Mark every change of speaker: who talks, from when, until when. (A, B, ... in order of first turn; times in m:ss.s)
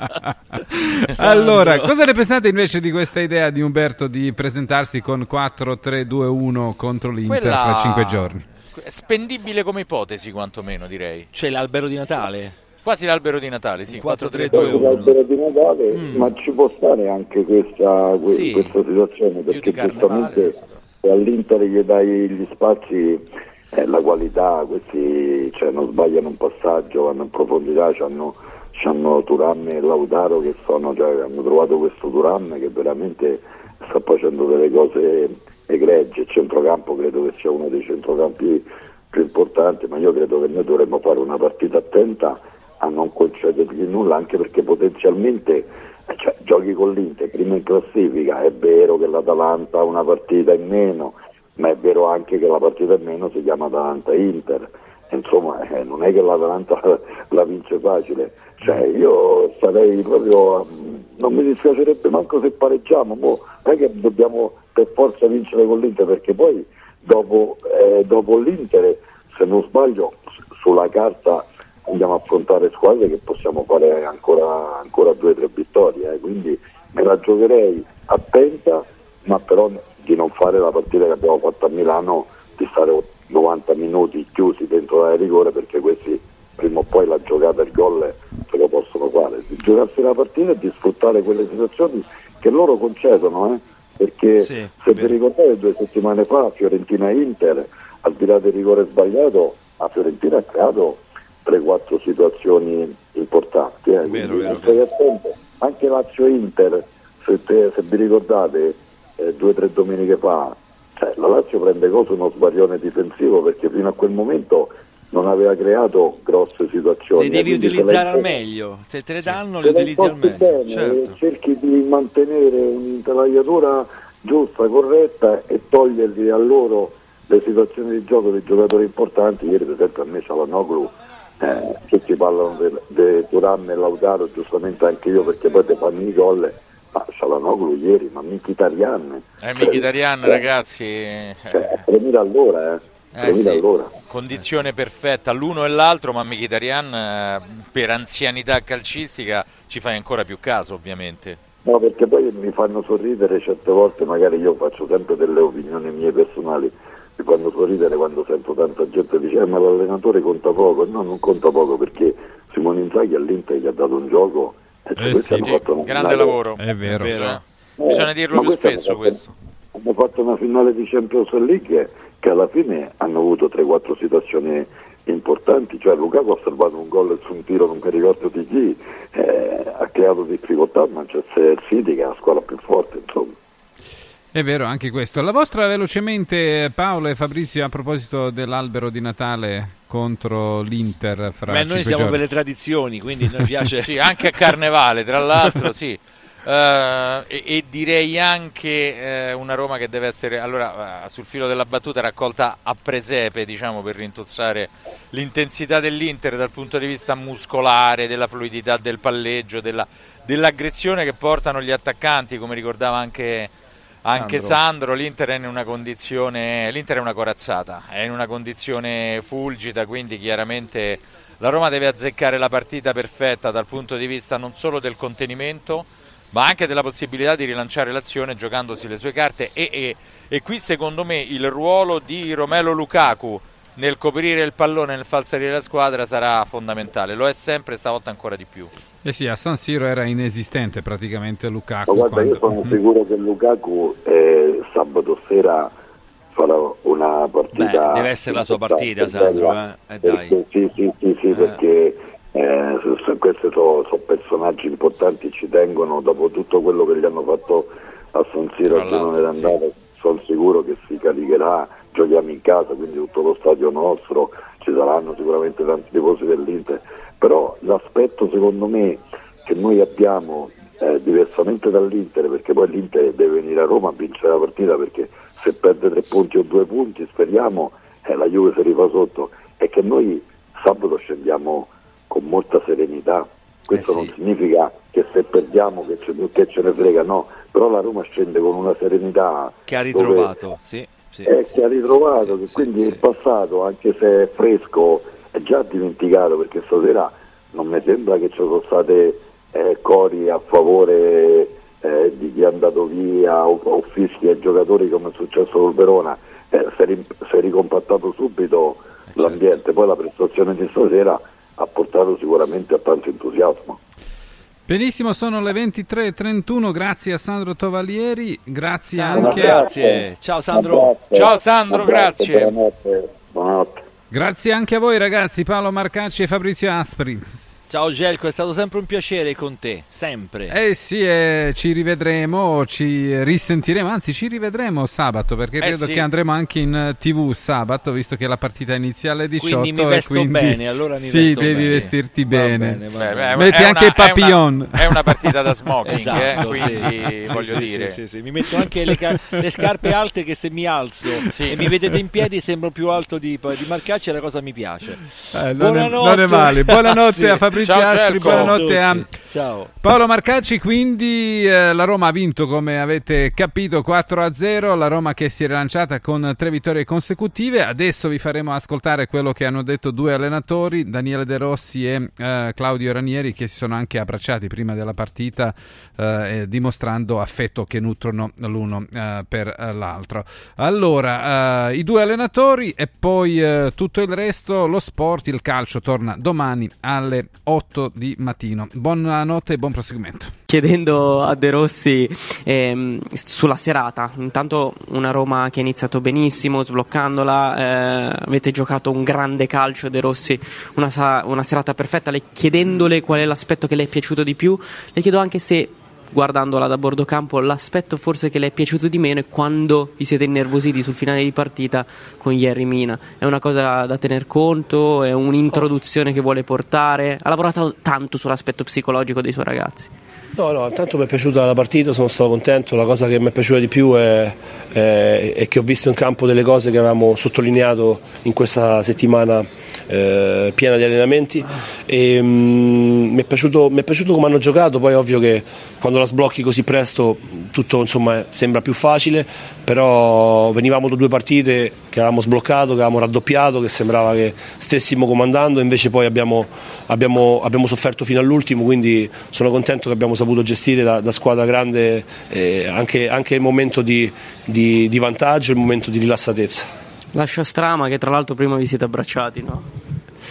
0:00.7-0:08.4 A
0:01.0-0:02.0 B
0:07.3-0:11.3 C
0:11.3-0:12.6 B
0:12.8-0:15.0 C
0:13.9-0:15.1 B
0:14.5-1:58.3 D
0:15.9-0:16.3 B
0:18.3-0:18.7 B
0:19.5-0:20.5 C
0:19.9-0:20.5 B
1:34.4-1:35.1 B
1:44.1-1:44.8 B
1:57.2-2:01.2 B
1:59.6-2:20.4 D
2:19.4-2:21.8 C
2:21.5-2:23.9 D
2:23.2-2:31.4 C
2:31.6-2:46.4 D
2:45.2-2:49.2 C
2:46.6-2:47.2 A
2:46.8-2:47.4 B
2:47.8-2:49.2 D
2:49.7-3:03.4 D
3:04.3-3:12.2 A
3:11.5-3:14.5 B
3:13.8-3:58.7 C
3:34.1-3:34.6 B
3:59.0-4:02.7 A
4:01.8-4:05.7 D
4:06.3-4:50.3 D
4:07.5-4:10.4 B
4:18.7-4:19.5 C
4:43.7-4:44.1 B
4:49.7-4:53.0 B
4:51.2-5:13.8 D
5:14.7-5:19.7 A
5:18.9-5:21.0 B
5:19.1-5:23.8 D
5:21.1-5:22.6 C
5:24.1-5:27.2 A
5:27.7-5:30.5 B
5:30.5-5:42.8 A
5:35.6-5:36.1 C
5:39.4-5:43.6 B
5:41.4-5:41.9 C
5:42.9-5:48.0 C
5:43.3-5:45.3 A
5:45.9-5:59.7 B
5:46.1-5:46.9 A
5:51.3-5:51.7 C
5:55.3-5:59.1 A
5:57.6-5:58.6 C
5:59.8-6:30.3 A
6:30.5-6:59.9 E
7:00.3-7:36.7 F
7:37.1-7:39.7 E